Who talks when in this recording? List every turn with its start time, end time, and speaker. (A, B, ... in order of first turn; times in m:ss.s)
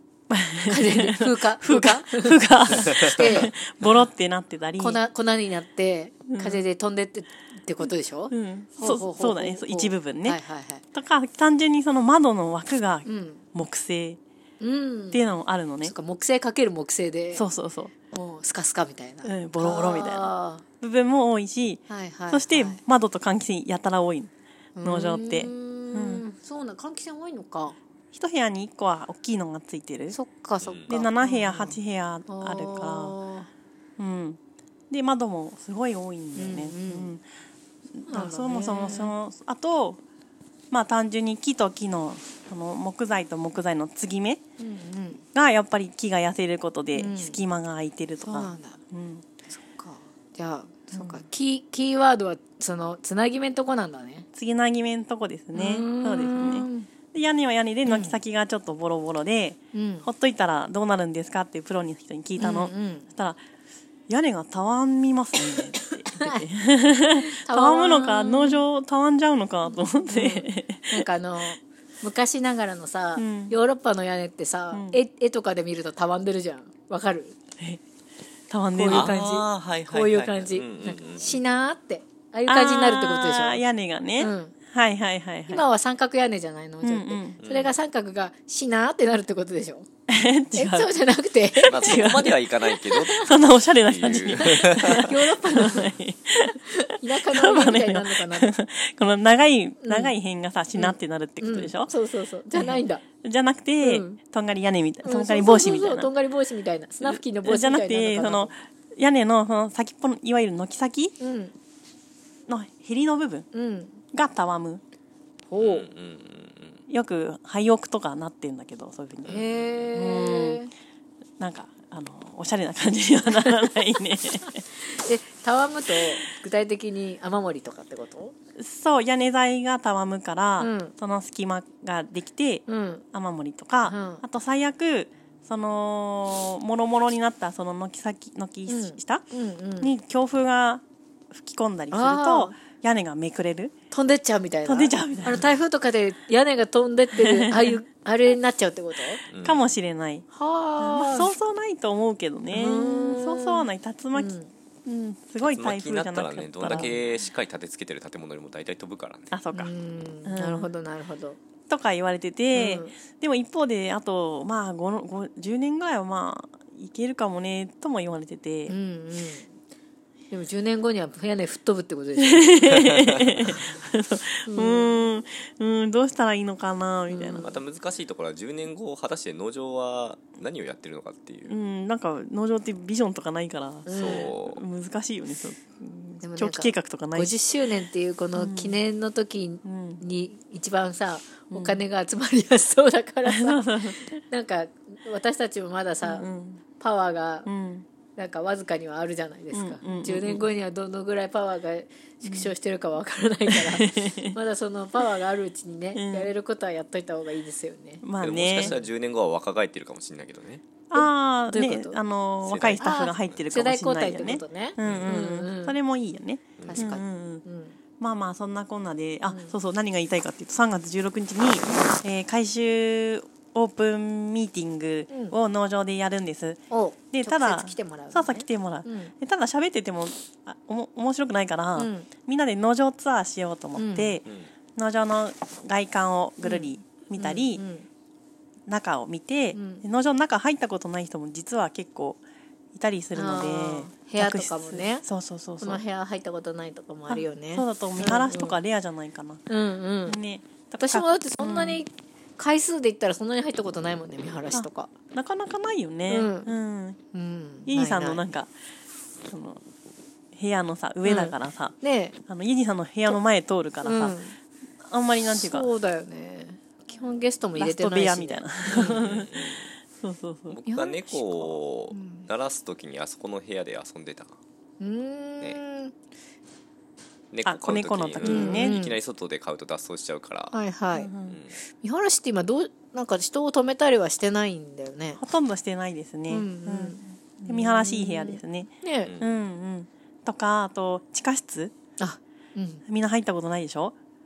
0:00.3-0:05.0 A
0:00.6-0:03.5 B
0:04.8-0:10.8 B
0:06.3-0:06.6 A
0:08.3-0:10.4 A
0:10.9-0:14.2 A
0:13.0-0:13.4 B
0:14.6-0:15.2 B
0:15.1-0:15.9 A
0:15.8-0:17.4 B
0:17.3-0:17.9 A
0:18.1-0:20.6 B
0:19.2-0:20.3 A
0:20.8-0:24.3 A
0:21.9-0:22.8 B
0:24.8-0:27.8 B
0:24.8-0:26.2 A
0:28.1-0:30.2 A
0:30.1-0:33.5 B
0:30.6-0:30.9 C
0:30.9-0:33.1 A
0:34.0-0:34.4 A
0:34.9-0:37.2 A
0:36.3-0:37.1 B
0:37.9-0:40.0 A
0:38.1-0:39.1 B
0:40.7-0:44.4 A
0:44.6-0:45.2 B
0:45.3-0:49.2 A
0:47.0-0:47.4 B
0:48.2-0:48.8 B
0:49.5-0:54.2 B
0:50.9-0:51.2 A
0:54.3-1:03.4 A
0:55.5-0:56.9 B
0:57.9-0:58.2 B
0:59.7-1:00.1 B
1:02.4-1:03.1 B
1:04.1-1:11.1 A
1:05.9-1:06.4 B
1:07.2-1:08.6 B
1:09.7-1:17.3 B
1:13.2-1:13.5 A
1:14.7-1:15.0 A
1:18.5-1:19.2 A
1:18.8-1:23.6 B
1:18.9-1:21.4 C
1:22.5-1:25.6 A
1:24.2-1:24.5 B
1:25.5-1:29.9 B
1:26.8-1:27.4 A
1:27.4-1:27.7 C
1:30.1-1:30.9 A
1:30.5-1:32.0 B
1:31.6-1:32.4 A
1:31.7-1:35.1 C
1:32.9-1:41.9 A
1:34.4-1:35.9 B
1:36.5-1:38.5 B
1:39.8-1:40.1 B
1:40.8-1:43.0 B
1:42.5-1:46.1 A
1:43.8-1:44.2 B
1:45.0-1:48.5 B
1:47.0-1:51.1 A
1:51.2-1:51.5 B
1:52.5-1:53.5 A
1:53.5-1:54.0 B
1:54.1-1:54.8 A
1:55.5-1:55.9 B
1:55.6-1:56.8 C
1:56.9-1:59.4 A
1:59.2-1:59.8 C
1:59.2-2:00.7 B
1:59.9-2:00.6 A
2:01.4-2:04.6 A
2:04.5-2:08.3 B
2:08.6-2:19.2 A
2:10.6-2:10.9 B
2:12.7-2:13.0 B
2:13.8-2:14.2 B
2:18.7-2:19.9 B
2:19.8-2:23.7 A
2:21.9-2:22.6 B
2:23.9-2:29.2 B
2:24.6-2:25.4 A
2:27.1-2:27.8 A
2:29.3-2:29.6 C
2:29.4-2:30.2 A
2:30.3-2:31.3 B
2:30.8-2:34.3 A
2:32.5-2:34.5 B
2:34.8-2:36.9 A
2:35.4-2:39.3 C
2:39.3-2:39.7 A
2:39.5-2:41.4 B
2:40.2-2:40.7 A
2:41.7-2:48.7 A
2:42.5-2:42.9 B
2:48.7-2:49.5 B
2:50.3-2:52.9 B
2:52.2-2:57.5 A
2:54.5-2:55.0 B
2:57.1-2:57.6 B
2:57.4-3:01.5 C
3:01.5-3:07.3 A
3:03.8-3:04.3 B
3:03.9-3:04.6 C
3:06.2-3:16.3 B
3:08.4-3:08.8 A
3:09.6-3:10.0 A
3:11.5-3:11.8 A
3:13.2-3:14.0 A
3:16.0-3:16.6 A
3:16.8-3:17.5 B
3:17.4-3:17.8 A
3:18.2-3:28.0 B
3:19.5-3:20.5 A
3:22.2-3:22.5 A
3:23.5-3:24.3 A
3:25.9-3:26.3 A
3:28.0-3:28.8 A
3:28.2-3:30.6 C
3:30.9-3:37.4 A
3:30.9-3:32.0 B
3:32.4-3:33.4 C
3:32.8-3:35.8 B
3:34.8-3:35.2 C
3:36.6-3:36.9 C
3:36.6-3:37.8 B
3:38.0-3:46.6 A
3:39.3-3:39.5 B
3:46.7-3:49.1 B
3:47.1-3:57.6 A
3:51.8-3:52.1 B
3:53.8-3:54.2 B
3:56.4-3:57.9 B
3:58.7-4:02.2 A
3:59.5-3:59.8 B
4:02.7-4:05.8 A
4:03.1-4:05.0 B
4:05.6-4:08.6 B
4:07.1-4:09.4 A
4:09.5-4:10.2 B
4:10.1-4:11.8 A
4:10.8-4:14.9 B
4:14.5-4:17.0 A
4:16.1-4:16.5 B
4:17.1-4:18.2 B
4:17.7-4:18.5 A
4:19.3-4:19.6 A
4:20.3-4:24.2 A
4:21.0-4:22.2 B
4:23.8-4:24.4 B
4:24.8-4:25.7 A
4:25.3-4:29.2 B
4:27.6-4:29.3 A
4:28.7-4:29.7 C
4:30.0-4:30.6 A
4:30.5-4:34.3 C
4:30.7-4:32.3 B
4:34.8-4:35.9 B
4:37.3-4:40.5 C
4:37.4-4:38.8 A
4:38.2-4:39.0 B
4:40.5-4:41.1 B
4:41.0-4:41.4 A
4:41.3-4:41.6 C
4:41.7-4:45.2 B
4:45.2-4:51.7 A
4:46.3-4:49.1 B
4:49.0-4:49.3 C
4:52.0-4:52.8 B
4:52.8-4:53.9 A